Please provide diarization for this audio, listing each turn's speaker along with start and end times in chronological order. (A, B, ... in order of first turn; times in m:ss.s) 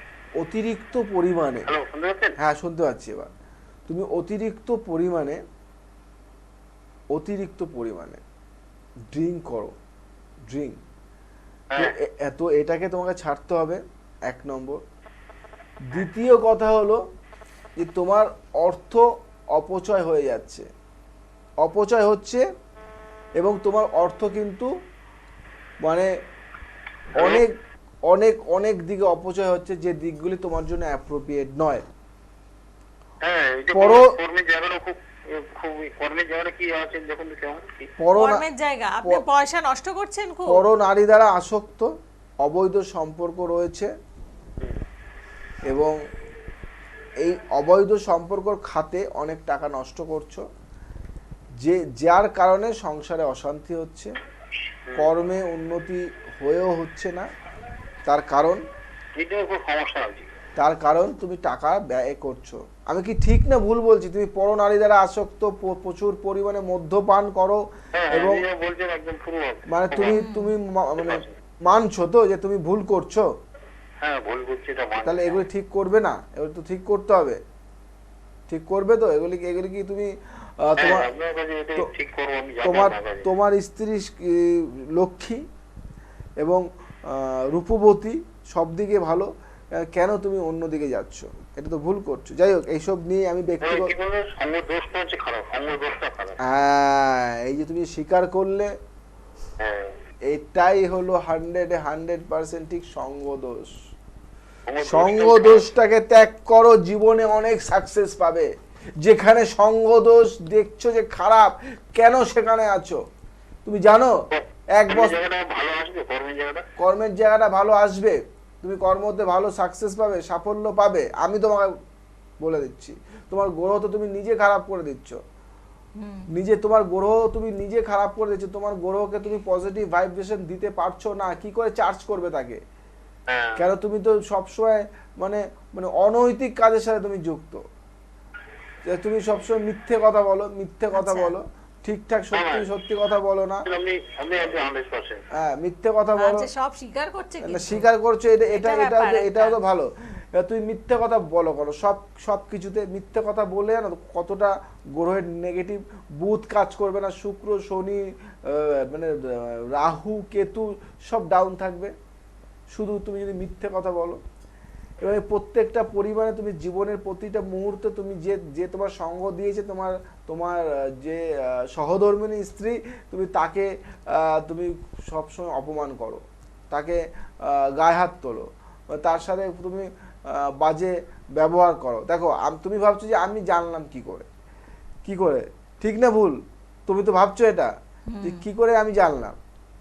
0:00.4-0:01.7 A
0:01.7-0:02.4 B
0:02.4-0:03.3 A
0:03.9-0:05.4 A
0:07.1-0:08.2 A
0:09.1-0:09.8 A
0:10.5-0:10.8 A
0:11.8-0:14.8 A
0:15.9-0:17.0 A
0:17.8-0:20.7 A
0:21.6-0:22.4 A
0:23.4-0:24.7 A
0:25.8-0:26.1 A
0:27.2-0:27.4 B
0:27.2-0:27.5 A
0:28.1-0:31.8 A
0:33.2-0:37.9 B
0:33.7-0:34.1 A
0:38.0-0:38.4 A
0:38.2-0:40.6 C
0:40.5-0:41.9 A
0:42.4-0:43.9 A
0:45.7-0:46.0 A
0:47.2-0:50.4 A
0:51.6-0:54.1 A
0:55.0-0:57.3 A
0:58.1-0:58.6 A
0:59.2-1:00.3 B
1:00.6-1:08.4 A
1:08.0-1:10.2 B
1:09.7-1:13.3 A
1:10.1-1:10.5 C
1:11.0-1:11.3 B
1:14.0-1:15.4 B
1:15.0-1:17.4 A
1:18.5-1:21.1 A
1:20.8-1:23.3 B
1:22.6-1:25.4 A
1:26.4-1:33.9 A
1:33.6-1:36.4 B
1:36.4-1:38.7 A
1:39.6-1:39.9 B
1:40.3-1:43.8 A
1:44.7-1:45.6 B
1:44.8-1:53.0 A
1:53.7-1:54.2 A
1:54.3-1:56.7 B
1:54.8-1:55.2 A
1:56.8-2:01.8 A
2:02.4-2:05.2 A
2:06.0-2:06.3 C
2:06.3-2:12.6 A
2:13.3-2:13.6 B
2:13.6-2:17.6 A
2:18.9-2:23.7 A
2:20.9-2:21.3 C
2:22.3-2:22.7 B
2:23.7-2:25.2 B
2:25.4-2:26.5 A
2:26.2-2:27.8 C
2:27.4-2:41.9 A
2:28.5-2:29.6 C
2:42.7-2:44.2 A
2:45.0-3:04.3 A
3:05.0-3:09.4 A
3:08.1-3:08.4 C